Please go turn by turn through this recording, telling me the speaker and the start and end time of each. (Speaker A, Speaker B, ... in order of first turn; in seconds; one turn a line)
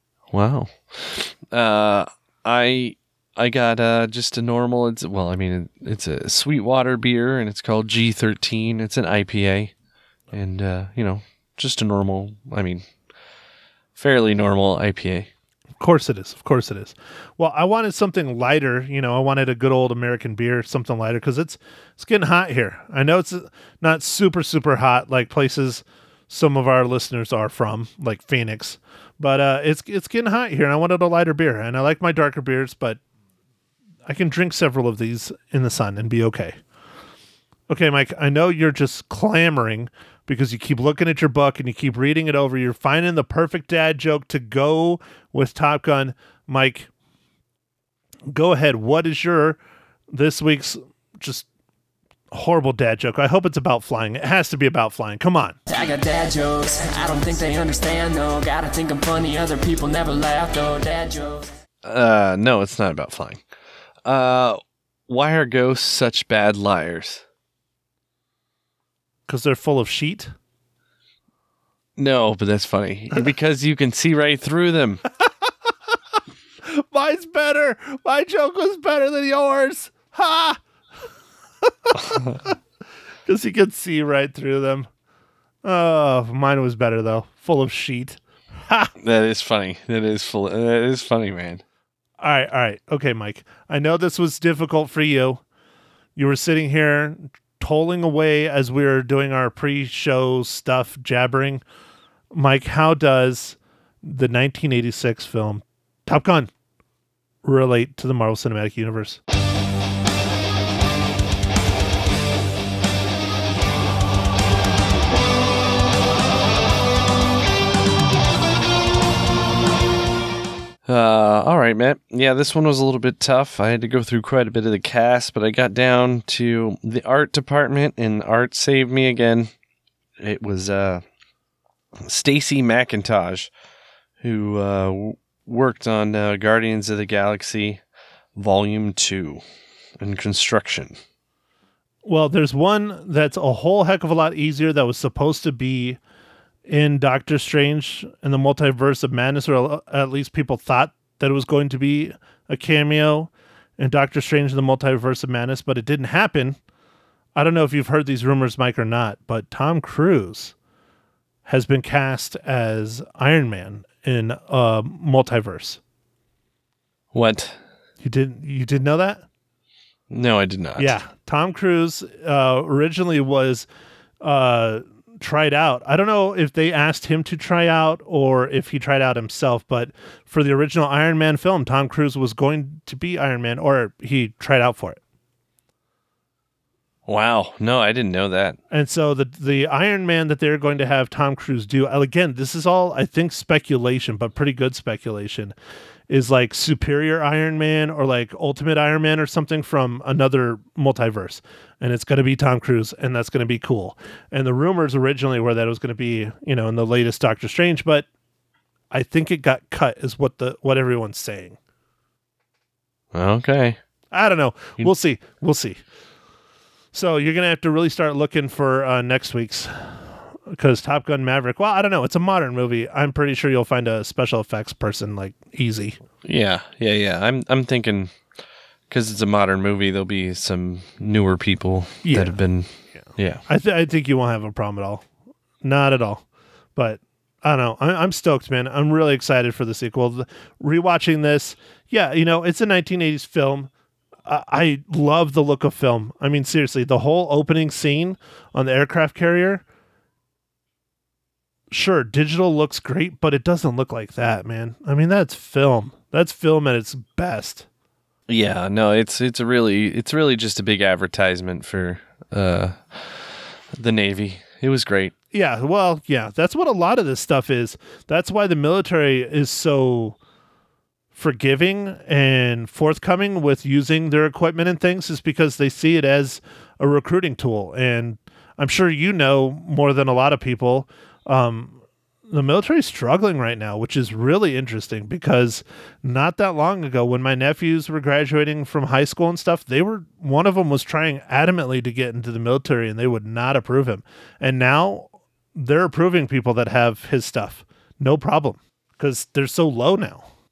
Speaker A: 0.3-9.7
Speaker A: 10.3-12.8
Speaker A: 13.9-15.3
Speaker B: 15.8-33.0
Speaker B: 34.1-36.5
Speaker B: 37.7-46.9
Speaker B: 48.3-49.6
Speaker B: 50.1-51.5
Speaker B: 52.3-55.6
Speaker C: 55.7-61.5
Speaker A: 61.8-63.4
Speaker A: 64.0-67.2
Speaker B: 69.3-70.3
Speaker A: 72.0-75.0
Speaker B: 76.7-80.6
Speaker B: 81.8-82.4
Speaker B: 83.2-84.9
Speaker B: 85.6-88.9
Speaker A: 89.0-91.6
Speaker B: 92.2-95.4
Speaker B: 96.2-101.6
Speaker B: 102.3-106.5
Speaker B: 107.4-109.2
Speaker A: 120.9-129.5
Speaker A: 130.2-131.0
Speaker A: 132.0-133.5
Speaker A: 134.2-137.8
Speaker A: 138.3-139.4
Speaker A: 140.0-141.0
Speaker B: 142.0-146.0
Speaker B: 146.7-156.6
Speaker B: 157.3-160.5
Speaker B: 161.4-165.8
Speaker A: 167.1-167.6
Speaker B: 168.0-169.2
Speaker A: 170.1-171.0
Speaker B: 170.8-173.7
Speaker B: 174.2-185.0
Speaker A: 187.1-188.6
Speaker B: 188.7-195.5
Speaker B: 196.1-208.1
Speaker B: 208.9-211.6
Speaker A: 213.1-213.8
Speaker B: 214.1-215.8
Speaker B: 216.9-219.9
Speaker B: 220.5-226.0
Speaker A: 226.2-228.2
Speaker A: 228.9-233.4
Speaker B: 232.0-232.4
Speaker B: 232.9-235.1
Speaker B: 235.6-236.2
Speaker B: 236.8-243.7
Speaker B: 244.2-249.6
Speaker B: 251.7-257.6
Speaker A: 258.3-265.1
Speaker B: 265.3-270.2
Speaker B: 271.1-281.8
Speaker B: 282.3-300.2